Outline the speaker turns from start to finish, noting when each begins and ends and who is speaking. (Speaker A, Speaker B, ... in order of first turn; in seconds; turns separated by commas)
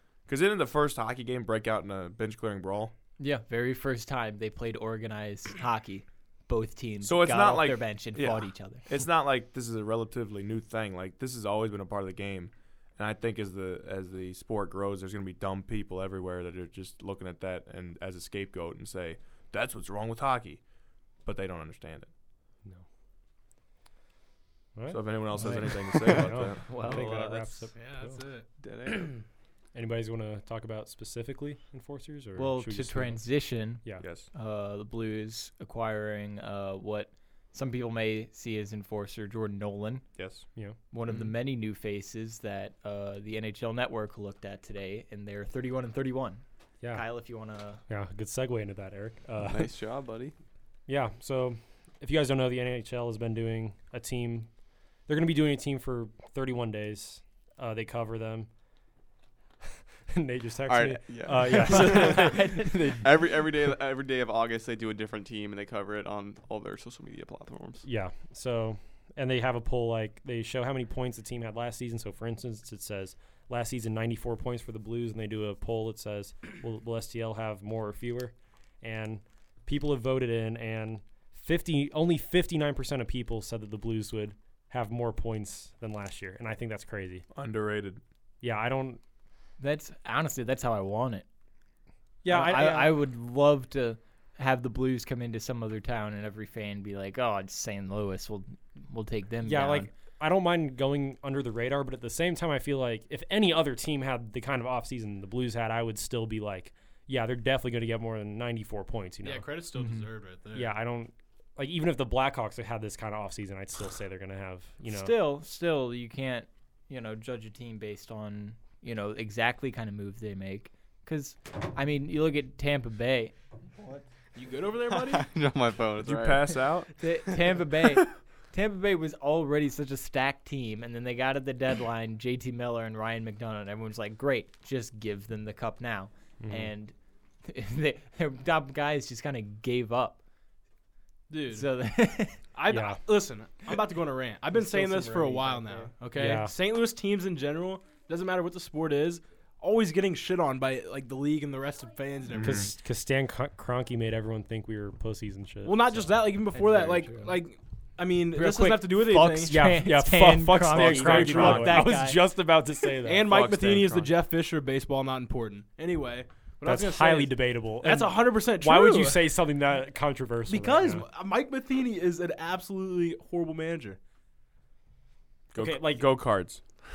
Speaker A: 0.3-2.9, Speaker B: 3.2-8.9, Speaker A: 7.0-20.6, Speaker A: 21.2-22.1, Speaker C: 24.7-28.1, Speaker A: 24.9-26.6, Speaker B: 25.4-25.7, Speaker B: 26.7-27.1, Speaker D: 26.7-27.7, Speaker E: 27.7-28.5, Speaker D: 28.6-29.2, Speaker C: 29.7-33.2, Speaker B: 32.4-40.0, Speaker A: 34.0-34.3, Speaker A: 40.2-40.4, Speaker B: 40.9-47.8, Speaker C: 47.9-49.7, Speaker D: 49.4-50.3, Speaker C: 50.9-54.5, Speaker C: 55.1-58.5, Speaker C: 60.1-63.0, Speaker D: 60.7-67.8, Speaker B: 61.6-63.0, Speaker C: 67.8-87.2, Speaker A: 87.3-88.0, Speaker C: 88.4-89.0, Speaker B: 89.6-91.2, Speaker C: 92.2-93.0, Speaker B: 92.2-99.9, Speaker C: 99.4-109.5, Speaker E: 109.2-110.7, Speaker B: 109.8-110.0, Speaker C: 110.5-115.1, Speaker B: 114.9-124.0, Speaker E: 124.3-125.2, Speaker D: 124.9-126.6, Speaker A: 126.0-126.9, Speaker B: 127.0-136.9, Speaker C: 136.4-136.7, Speaker B: 137.4-140.2, Speaker E: 141.3-141.7, Speaker B: 141.5-142.4, Speaker E: 142.5-152.7, Speaker C: 142.7-143.0, Speaker B: 144.6-145.9, Speaker C: 146.1-146.5, Speaker A: 152.3-152.7, Speaker C: 152.4-156.1, Speaker E: 155.6-159.6, Speaker B: 156.5-157.3, Speaker B: 158.3-162.2, Speaker C: 159.5-163.5, Speaker E: 160.7-161.9, Speaker E: 163.0-169.3, Speaker A: 163.3-164.1, Speaker C: 166.6-171.0, Speaker E: 170.5-174.0, Speaker A: 175.5-176.6, Speaker C: 175.6-175.8, Speaker E: 175.6-176.0